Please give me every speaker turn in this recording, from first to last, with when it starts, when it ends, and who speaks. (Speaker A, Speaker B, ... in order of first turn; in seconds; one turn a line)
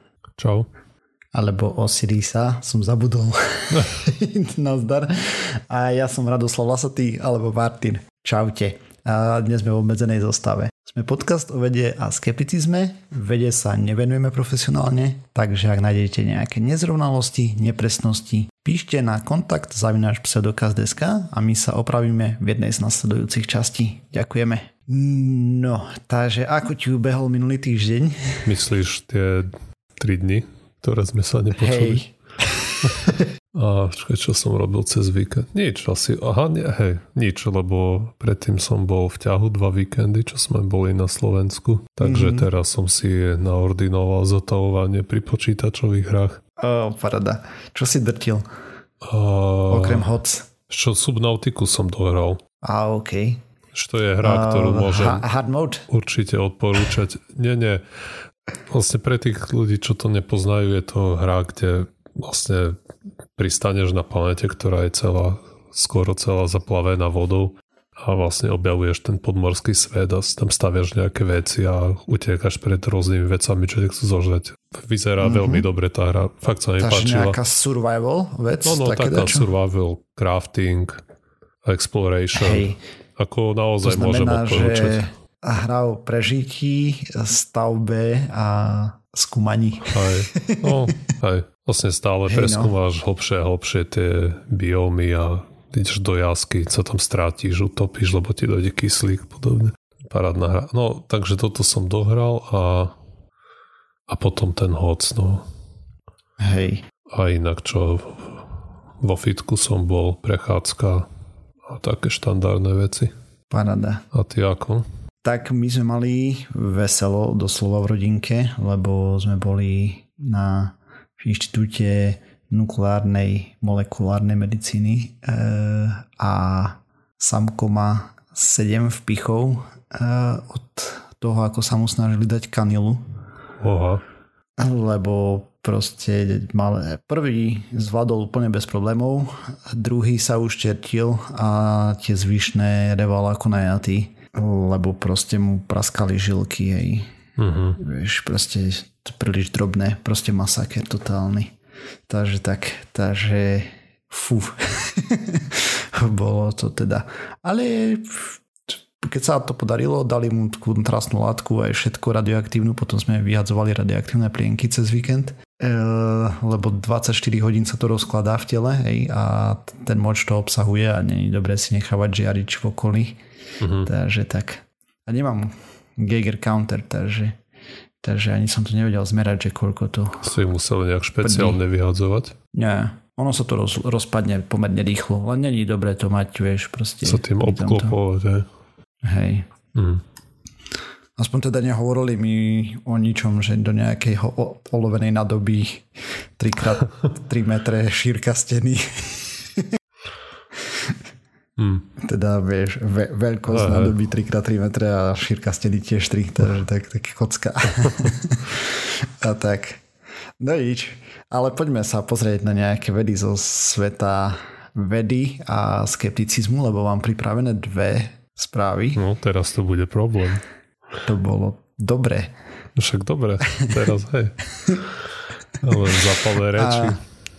Speaker A: 0.4-0.7
Speaker B: 1.3-28.4
Speaker A: 28.4-32.0
Speaker B: 31.6-33.2
Speaker A: 32.9-46.4
Speaker B: 42.0-42.5
Speaker B: 46.6-48.5
Speaker A: 49.0-50.0
Speaker B: 49.7-50.5
Speaker A: 50.7-52.4
Speaker B: 52.6-53.4
Speaker A: 53.7-55.2
Speaker B: 54.2-55.8
Speaker A: 55.9-57.8
Speaker A: 58.7-62.8
Speaker A: 63.4-77.4
Speaker B: 75.2-75.7
Speaker B: 76.8-79.5
Speaker A: 78.6-81.0
Speaker A: 81.6-85.0
Speaker B: 82.3-82.8
Speaker B: 83.8-91.1
Speaker A: 89.8-102.9
Speaker B: 92.3-92.7
Speaker A: 104.1-105.4
Speaker B: 106.4-106.8
Speaker A: 107.1-111.1
Speaker A: 111.6-113.1
Speaker B: 113.5-114.0
Speaker A: 114.1-114.8
Speaker B: 115.2-133.0
Speaker A: 133.6-134.0
Speaker B: 134.6-147.1
Speaker A: 147.4-147.8
Speaker B: 147.8-151.5
Speaker B: 152.1-173.2
Speaker A: 173.6-173.9
Speaker B: 173.8-177.3
Speaker B: 178.0-180.3
Speaker A: 180.2-182.3
Speaker B: 181.2-181.6
Speaker B: 182.5-188.0
Speaker A: 187.0-188.4
Speaker B: 189.0-189.5
Speaker A: 189.7-190.0
Speaker B: 191.2-199.7
Speaker A: 201.6-201.9
Speaker B: 202.0-209.8
Speaker A: 203.5-203.9
Speaker B: 210.4-219.0
Speaker A: 218.9-220.4
Speaker B: 221.0-222.3
Speaker A: 222.8-224.4
Speaker A: 225.6-227.0
Speaker B: 225.6-226.0
Speaker B: 226.5-227.0